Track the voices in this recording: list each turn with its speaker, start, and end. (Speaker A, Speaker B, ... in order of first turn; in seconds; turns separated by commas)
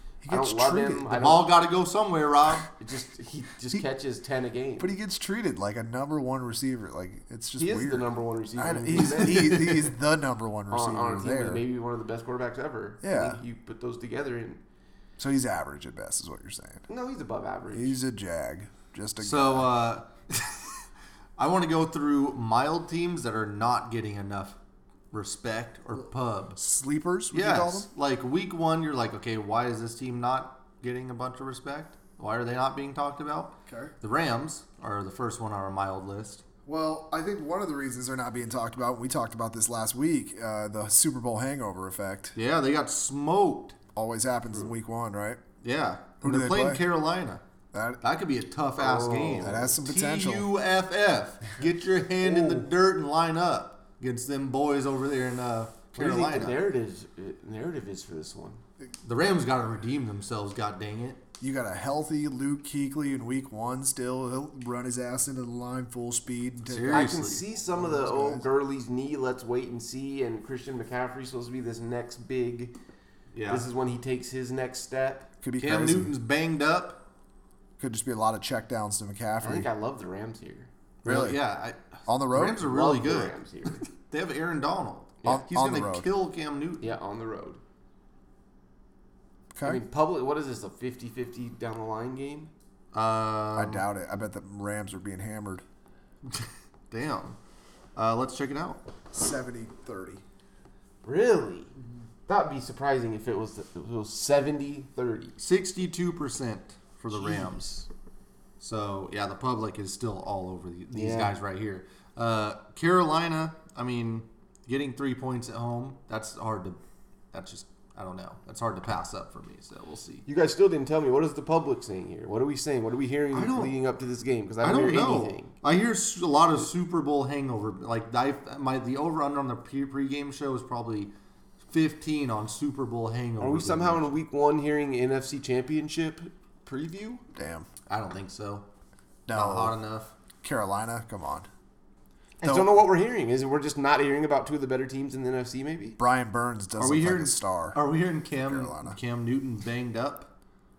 Speaker A: 0.2-1.1, Speaker B: 0.3-1.5, Speaker C: 1.1-2.7, Speaker B: 2.8-4.9, Speaker A: 4.8-8.1, Speaker B: 7.6-9.6, Speaker A: 8.6-11.6, Speaker C: 8.9-9.9, Speaker B: 10.7-14.6, Speaker A: 13.0-13.4, Speaker A: 15.2-16.8, Speaker B: 16.9-17.9, Speaker A: 17.7-19.7, Speaker C: 19.2-20.8, Speaker C: 21.4-24.6, Speaker C: 25.1-26.6, Speaker A: 26.6-27.9, Speaker C: 27.3-36.4, Speaker A: 33.6-33.9, Speaker A: 36.6-42.3, Speaker C: 42.3-43.8, Speaker A: 43.9-45.4, Speaker C: 45.6-47.4, Speaker A: 46.2-46.8, Speaker A: 47.7-48.0, Speaker C: 48.0-56.6, Speaker B: 48.8-49.7, Speaker A: 49.4-50.5, Speaker B: 52.2-52.7, Speaker B: 55.9-58.6, Speaker C: 59.0-61.2, Speaker A: 61.4-68.5, Speaker C: 66.6-67.4, Speaker B: 66.9-72.7, Speaker C: 73.3-73.7, Speaker B: 73.5-75.3, Speaker A: 75.4-76.1, Speaker C: 75.6-77.0, Speaker A: 77.8-79.7, Speaker B: 79.4-80.7, Speaker C: 81.0-86.9, Speaker A: 81.0-81.4, Speaker A: 82.1-82.7, Speaker B: 82.6-83.8, Speaker A: 85.2-86.1, Speaker B: 86.8-87.6, Speaker A: 89.5-89.8, Speaker B: 89.6-92.5, Speaker C: 92.9-93.8, Speaker A: 93.5-95.6, Speaker C: 96.2-97.4, Speaker C: 98.0-98.8, Speaker A: 99.1-100.2, Speaker B: 101.0-101.7, Speaker B: 102.3-105.4, Speaker C: 105.4-107.9, Speaker C: 108.6-116.8, Speaker B: 110.9-111.3, Speaker C: 117.3-120.2, Speaker B: 120.2-125.5, Speaker C: 123.3-123.7, Speaker C: 124.6-131.1, Speaker C: 131.7-134.1, Speaker B: 133.4-137.2, Speaker A: 137.3-137.7, Speaker C: 137.9-138.7, Speaker A: 139.3-139.8, Speaker C: 139.3-140.1, Speaker A: 140.4-141.5, Speaker B: 142.4-146.0, Speaker A: 142.4-142.7, Speaker A: 146.0-147.8, Speaker C: 146.8-150.3, Speaker A: 148.4-149.0